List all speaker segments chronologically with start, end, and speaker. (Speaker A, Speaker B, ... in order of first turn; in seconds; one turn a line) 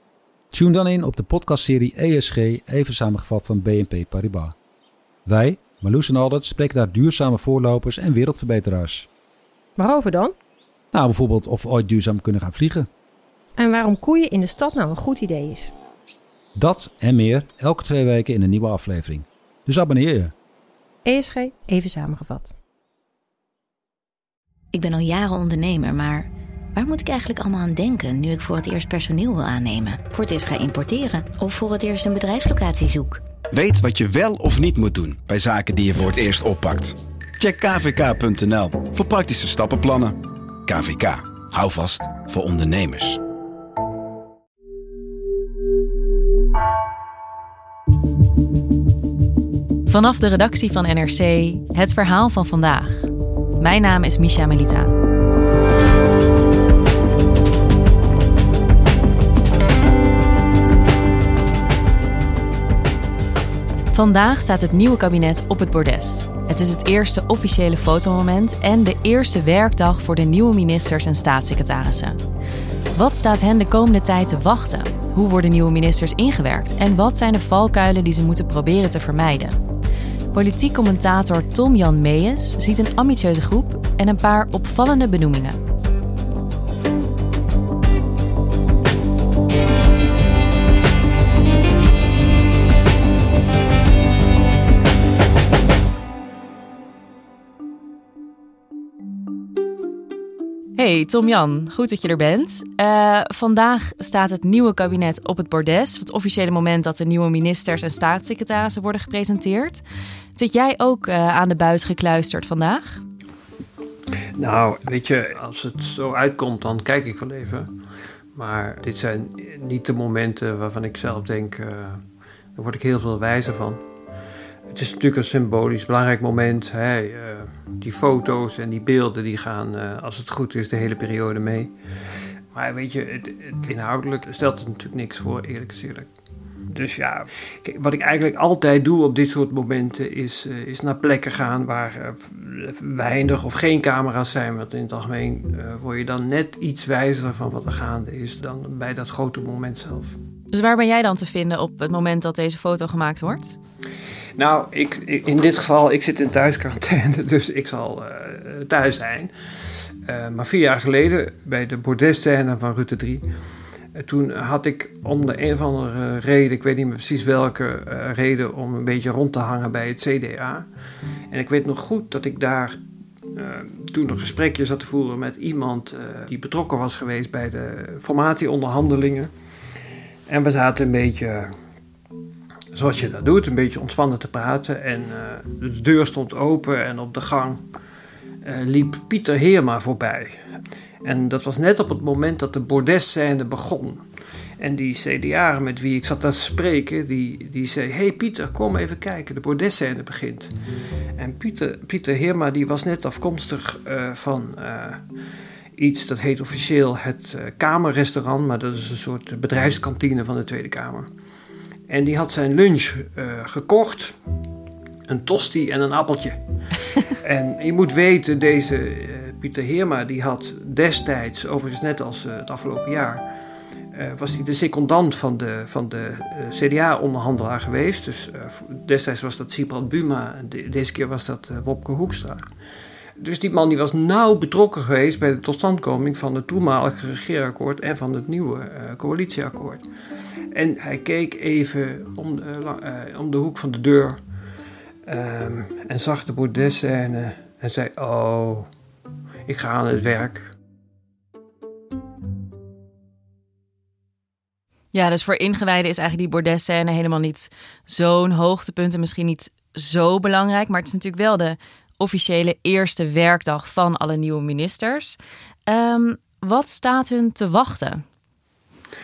Speaker A: 0.5-4.5
Speaker A: 5.2-9.1
Speaker B: 9.8-10.3
Speaker A: 10.9-12.9
Speaker B: 13.6-15.7
Speaker A: 16.6-20.3
Speaker B: 21.0-22.6
Speaker C: 24.7-33.2
Speaker D: 33.5-43.2
Speaker E: 49.9-54.9
Speaker E: 63.9-72.2
Speaker E: 73.0-79.6
Speaker E: 80.3-85.6
Speaker E: 100.7-109.8
Speaker E: 110.3-113.0
Speaker F: 114.4-117.7
Speaker F: 118.3-122.0
Speaker F: 122.5-123.8
Speaker F: 124.7-131.7
Speaker F: 132.5-136.1
Speaker F: 136.7-150.2
Speaker E: 150.5-153.6
Speaker F: 154.4-159.3
Speaker F: 160.1-163.2
Speaker F: 163.9-170.7
Speaker F: 171.3-172.8
Speaker F: 173.3-179.3
Speaker F: 180.3-181.5
Speaker F: 182.7-187.6
Speaker F: 188.4-190.4
Speaker F: 191.0-194.0
Speaker F: 194.6-200.5
Speaker F: 201.2-205.0
Speaker F: 205.8-211.1
Speaker F: 211.9-214.1
Speaker F: 215.1-216.4
Speaker F: 217.2-223.2
Speaker F: 223.9-232.4
Speaker F: 233.2-239.8
Speaker F: 240.5-244.2
Speaker F: 245.1-248.7
Speaker F: 249.5-250.5
Speaker E: 254.9-268.0